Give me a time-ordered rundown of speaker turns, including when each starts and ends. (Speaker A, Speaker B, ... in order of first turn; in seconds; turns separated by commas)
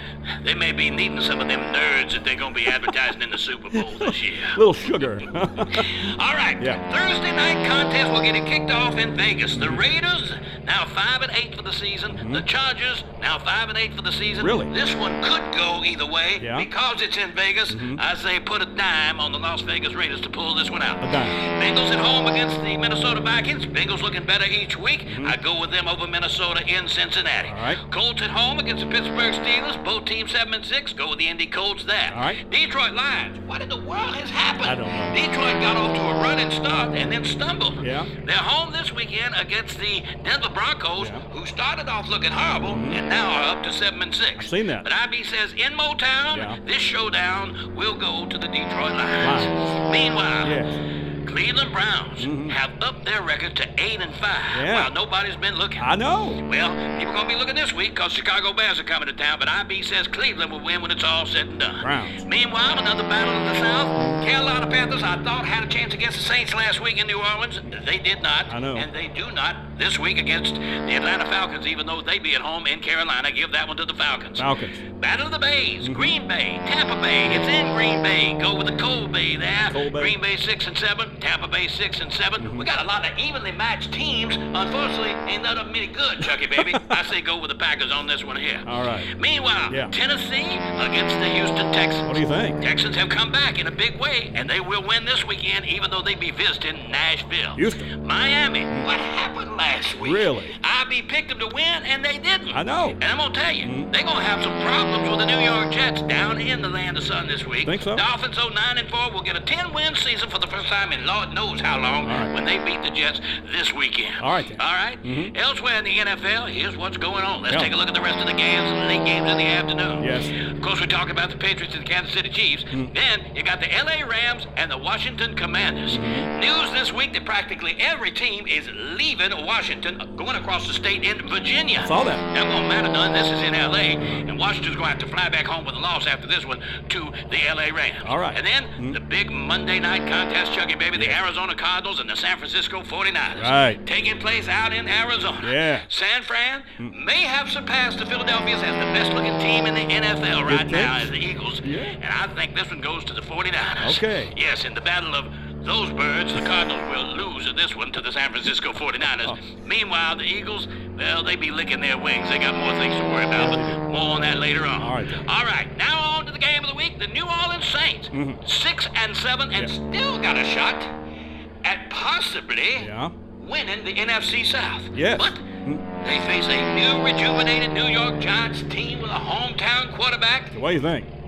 Speaker A: 0.4-4.6, Speaker B: 3.9-6.0, Speaker A: 5.7-50.6, Speaker B: 9.5-9.8, Speaker B: 12.1-12.4, Speaker B: 14.4-14.7, Speaker B: 16.4-16.7, Speaker B: 17.7-18.0, Speaker B: 21.0-21.4, Speaker B: 25.1-25.4, Speaker B: 27.4-27.8, Speaker B: 32.1-32.4, Speaker B: 34.6-35.2, Speaker B: 37.8-38.1, Speaker B: 41.0-41.2, Speaker B: 42.7-43.0, Speaker B: 44.4-44.9, Speaker B: 46.3-46.6, Speaker B: 49.2-49.7, Speaker B: 50.4-50.8, Speaker A: 51.2-170.9, Speaker B: 52.2-52.6, Speaker B: 54.5-54.9, Speaker B: 55.8-56.4, Speaker B: 61.8-62.2, Speaker B: 64.0-64.2, Speaker B: 68.5-68.9, Speaker B: 74.4-74.8, Speaker B: 75.8-76.1, Speaker B: 79.7-80.2, Speaker B: 82.4-82.7, Speaker B: 86.6-86.9, Speaker B: 88.7-89.1, Speaker B: 92.1-92.6, Speaker B: 97.6-97.9, Speaker B: 100.0-100.5, Speaker B: 102.5-103.0, Speaker B: 103.6-103.9, Speaker B: 107.7-108.0, Speaker B: 112.0-112.3, Speaker B: 114.2-115.3, Speaker B: 120.0-120.4, Speaker B: 125.9-126.3, Speaker B: 131.8-132.2, Speaker B: 138.1-139.0, Speaker B: 143.3-143.8, Speaker B: 145.4-145.9, Speaker B: 150.5-151.1, Speaker B: 151.6-152.0, Speaker B: 153.8-154.3, Speaker B: 163.4-163.8, Speaker B: 164.8-165.2, Speaker B: 168.1-168.4, Speaker A: 171.6-175.4, Speaker B: 172.8-173.2, Speaker B: 174.9-175.8, Speaker A: 176.0-180.5, Speaker B: 180.5-181.1